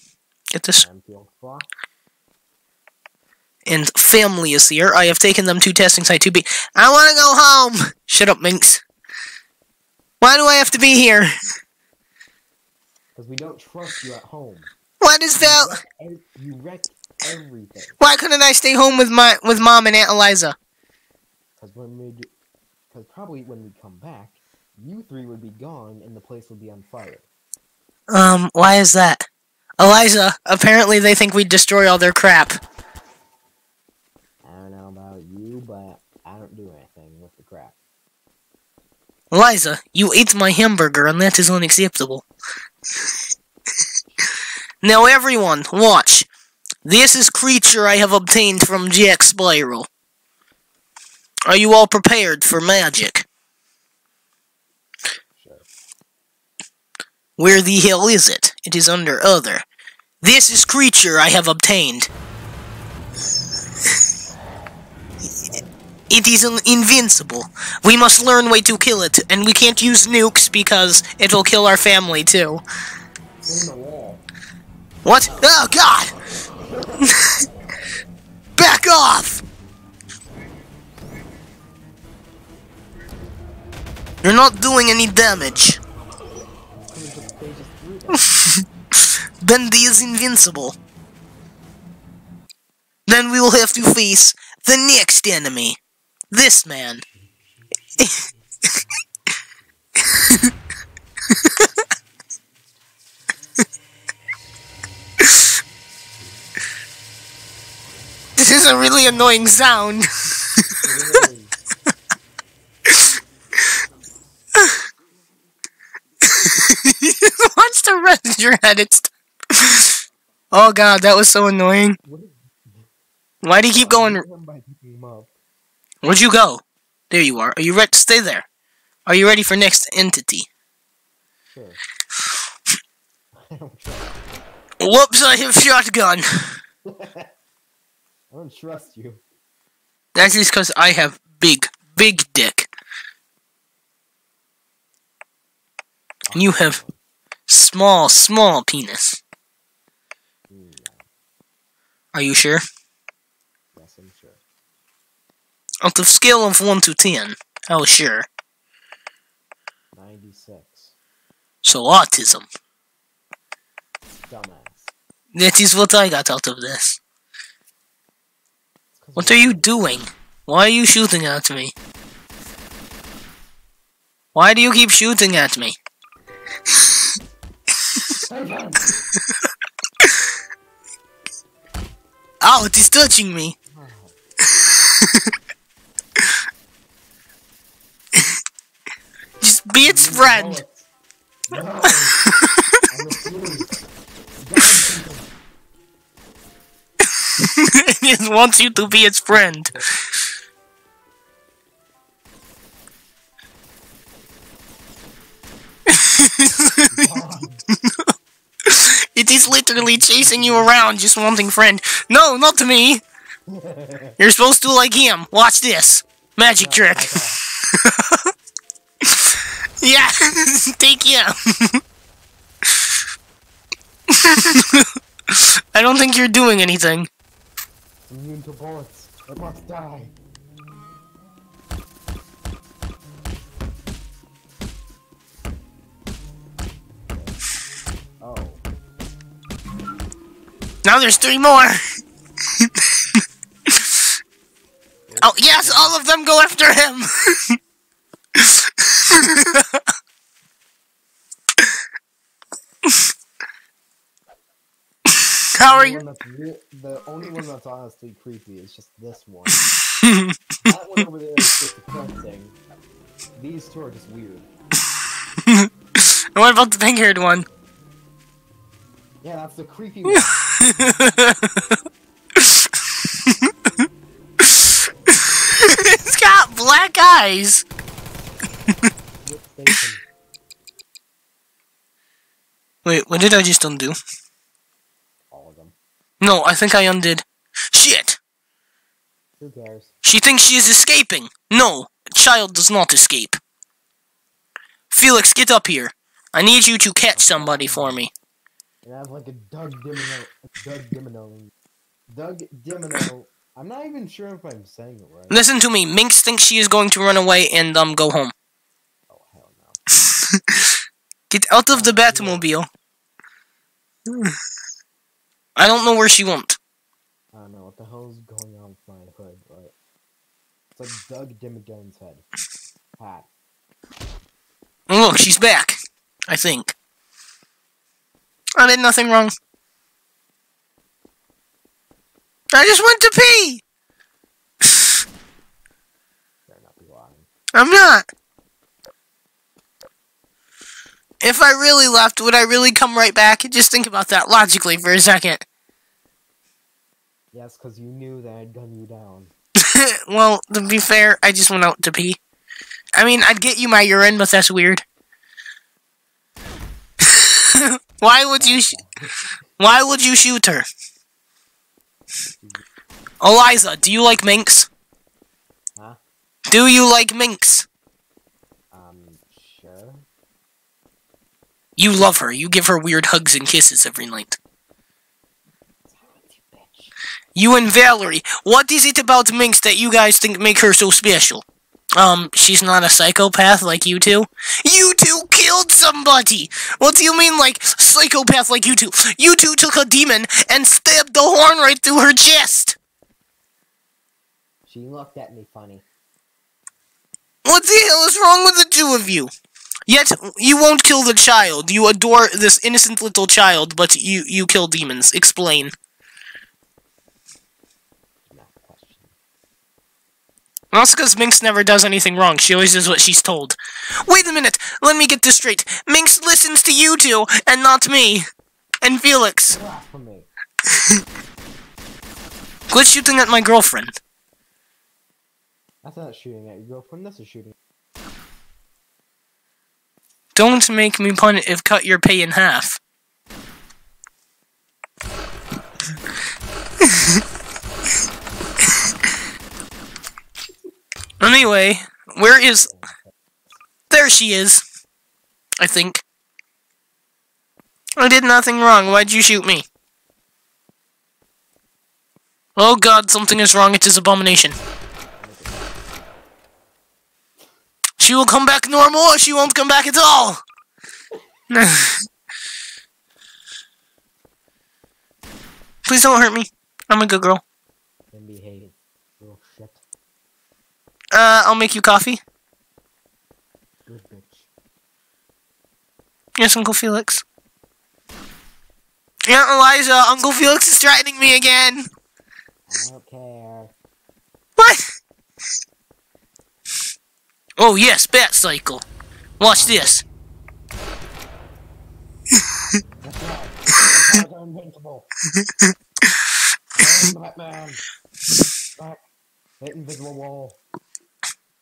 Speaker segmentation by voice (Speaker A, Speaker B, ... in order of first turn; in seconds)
Speaker A: 0.5-0.8, 3.7-8.8, 10.2-11.3, 15.0-15.8, 18.0-20.6, 28.1-29.3, 29.8-32.6, 39.3-42.3, 44.8-46.3, 46.9-49.9, 51.5-53.3, 57.4-59.6, 60.2-62.1, 66.1-72.6, 75.0-76.2, 78.6-79.4, 84.2-85.8, 88.3-88.6, 89.4-90.8, 93.1-95.8, 96.3-97.0, 108.4-110.1, 116.2-119.9, 120.5-122.0, 123.4-124.2, 126.0-128.5, 129.1-130.5, 134.8-136.5, 140.2-142.7, 146.3-146.8, 147.5-149.2, 152.1-152.6, 155.8-158.3, 161.6-162.5, 165.3-167.0, 169.2-171.7, 174.3-175.8, 182.4-183.6, 189.4-190.6, 192.4-192.8, 197.4-199.7, 205.9-207.0, 207.8-208.1, 208.7-213.0, 214.2-218.3, 219.1-221.8, 224.1-227.1, 240.8-241.8, 243.7-244.0, 245.2-247.6, 248.4-249.8, 255.5-256.0, 260.0-260.4, 265.5-267.5, 270.1-271.6, 275.6-277.6, 282.9-284.0, 286.2-288.2, 290.0-293.4, 294.9-298.1, 305.3-308.3, 311.3-312.7, 314.1-314.4, 315.6-316.6, 324.9-326.8, 328.6-329.3, 332.5-333.6, 337.5-338.1, 341.2-345.4, 349.6-352.2, 353.0-354.8, 357.3-358.8, 359.6-360.6, 363.2-364.7, 366.5-367.7, 371.8-374.4, 377.4-381.4, 382.0-392.8, 397.4-399.3, 399.9-405.7, 410.7-418.3, 418.8-419.6, 422.7-424.0, 430.4-432.8, 441.2-442.7, 443.9-444.6, 445.6-446.0, 448.0-449.6, 452.6-454.6, 458.0-460.4, 461.5-462.1, 465.9-467.4, 471.1-472.2, 476.4-477.2, 479.3-481.9, 484.6-484.8, 487.6-488.8, 489.4-490.0
Speaker B: 0.8-1.7, 13.2-14.7, 15.4-18.2, 21.6-22.3, 22.9-27.3, 34.4-37.8, 55.4-55.7, 73.5-74.2, 76.7-77.3, 86.9-88.3, 110.8-111.6, 122.0-122.9, 123.7-125.3, 131.5-131.8, 133.4-134.5, 136.9-137.3, 138.3-139.2, 146.3-147.0, 150.5-151.1, 153.7-154.4, 159.9-161.0, 164.3-164.9, 168.9-169.7, 178.1-179.1, 183.7-184.2, 189.8-190.9, 191.5-192.2, 192.9-193.7, 194.4-195.3, 198.7-199.0, 206.9-207.7, 209.5-210.9, 213.5-214.2, 216.6-217.4, 228.1-230.2, 237.1-237.4, 238.2-238.6, 245.1-246.0, 255.6-259.7, 260.6-262.6, 263.4-264.5, 269.2-270.4, 279.2-280.0, 285.3-285.8, 289.4-290.0, 297.1-298.1, 298.8-301.5, 302.1-305.4, 309.1-309.8, 311.7-312.5, 317.3-319.8, 320.8-322.3, 323.0-323.3, 336.5-337.3, 347.3-349.3, 358.4-359.3, 362.4-362.6, 368.7-370.1, 375.9-377.0, 394.7-395.9, 408.3-409.1, 419.5-420.3, 425.8-427.6, 442.6-443.6, 455.2-455.8, 468.1-469.8, 473.9-474.5, 482.7-483.7, 489.5-490.0, 493.0-495.1, 496.8-497.8, 498.8-499.0, 499.6-500.6